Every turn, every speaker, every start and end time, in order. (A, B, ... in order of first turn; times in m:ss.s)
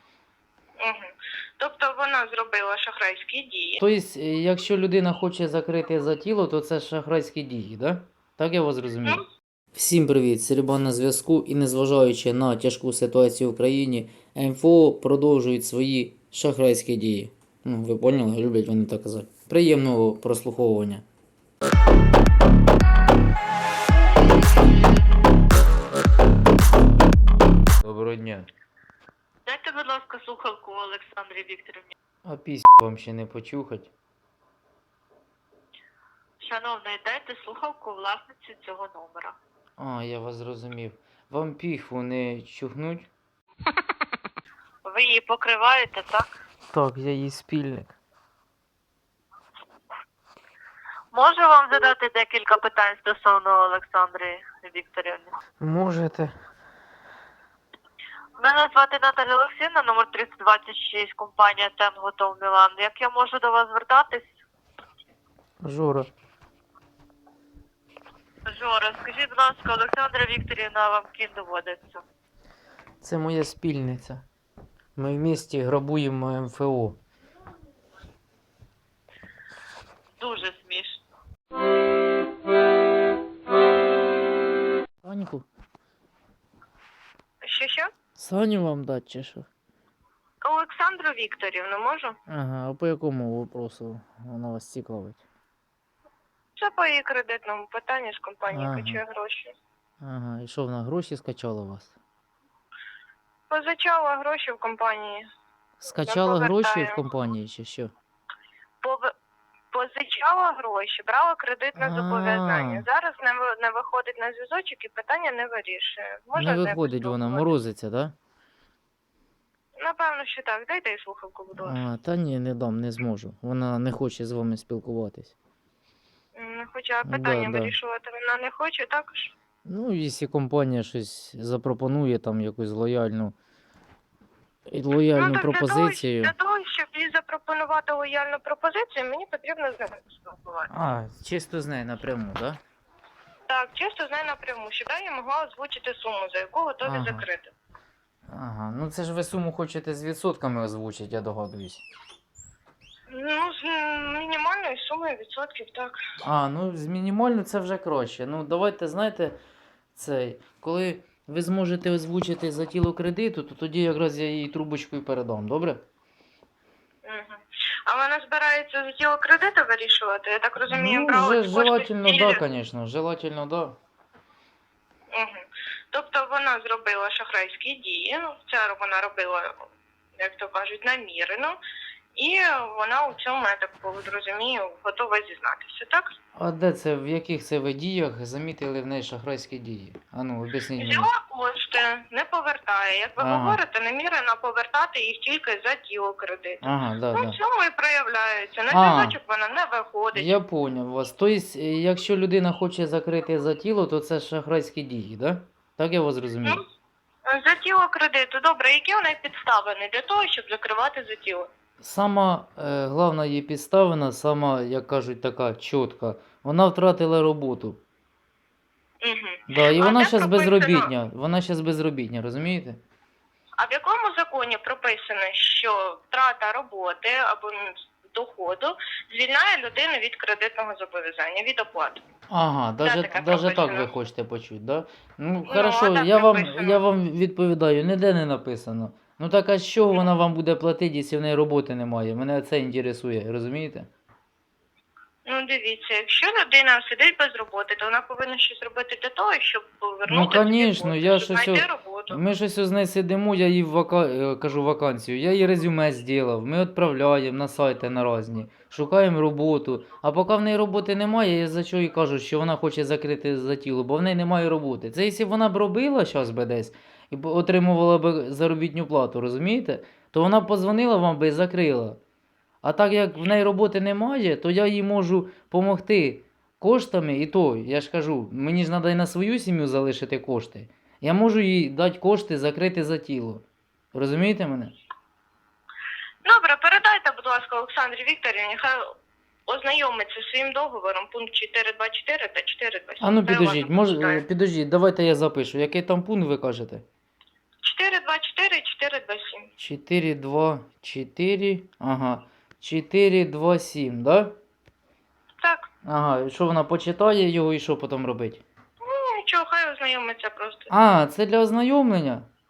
0:00.8-0:03.8 A
0:03.8-0:09.2 B
0:09.8-0:21.0 B
0:27.8-0:28.5 B
0:29.4-0:31.9 C
0:32.2-0:33.9 B
0:36.4-0:39.4 C
0:39.8-0:43.1 B
0:44.8-0:46.3 C
0:46.7-0:48.0 B
0:51.1-0:55.4 C
0:55.6-0:56.3 B
0:58.4-1:04.3 C
1:05.6-1:06.1 B
1:08.4-1:12.0 C
1:13.0-1:14.2 B
1:15.0-1:17.0 B
1:20.2-1:21.0 C
1:25.0-1:25.4 B
1:27.4-1:27.9 A
1:28.2-1:29.5 B
1:30.4-1:32.1 A
1:32.3-1:35.2 B
1:36.6-1:39.5 A
1:38.5-1:39.0 B
1:40.0-1:41.9 B
1:43.5-1:45.2 A
1:45.8-1:47.9 B
1:46.0-1:47.0 A
1:48.8-1:49.1 A
1:49.7-1:57.5 A
1:51.8-1:52.8 B
1:56.3-1:58.1 B
1:59.8-2:01.8 A
2:01.6-2:05.3 B
2:06.3-2:09.3 A
2:07.0-2:07.7 B
2:09.7-2:13.3 B
2:14.7-2:16.3 B
2:15.1-2:20.7 A
2:20.7-2:22.6 B
2:23.5-2:27.5 A
2:26.8-2:27.2 B
2:28.3-2:31.8 B
2:33.1-2:36.0 A
2:36.2-2:39.4 B
2:40.0-2:45.8 B
2:47.0-2:52.4 A
2:50.7-2:53.8 B
2:55.1-2:59.6 A
3:00.2-3:01.6 A
3:02.2-3:06.1 A
3:06.4-3:11.1 B
3:10.8-3:20.3 A
3:13.2-3:13.6 B
3:16.6-3:17.4 B
3:18.7-3:19.2 B
3:20.1-3:26.6 B
3:27.3-3:31.5 A
3:31.8-3:37.8 B
3:39.0-3:40.9 A
3:39.5-3:42.8 B
3:43.6-3:52.0 A
3:52.3-4:03.9 B
3:52.8-3:53.9 A
3:55.5-3:56.8 A
4:05.2-4:12.2 A
4:10.1-4:32.0 B
4:32.6-4:44.8 B
4:46.2-4:48.9 A
4:49.5-4:54.2 A
4:53.0-4:56.8 B
4:57.6-4:59.5 A
4:59.6-5:04.3 B
5:05.4-5:05.7 A
5:05.8-5:08.4 B
5:08.8-5:10.7 A
5:10.7-5:12.3 B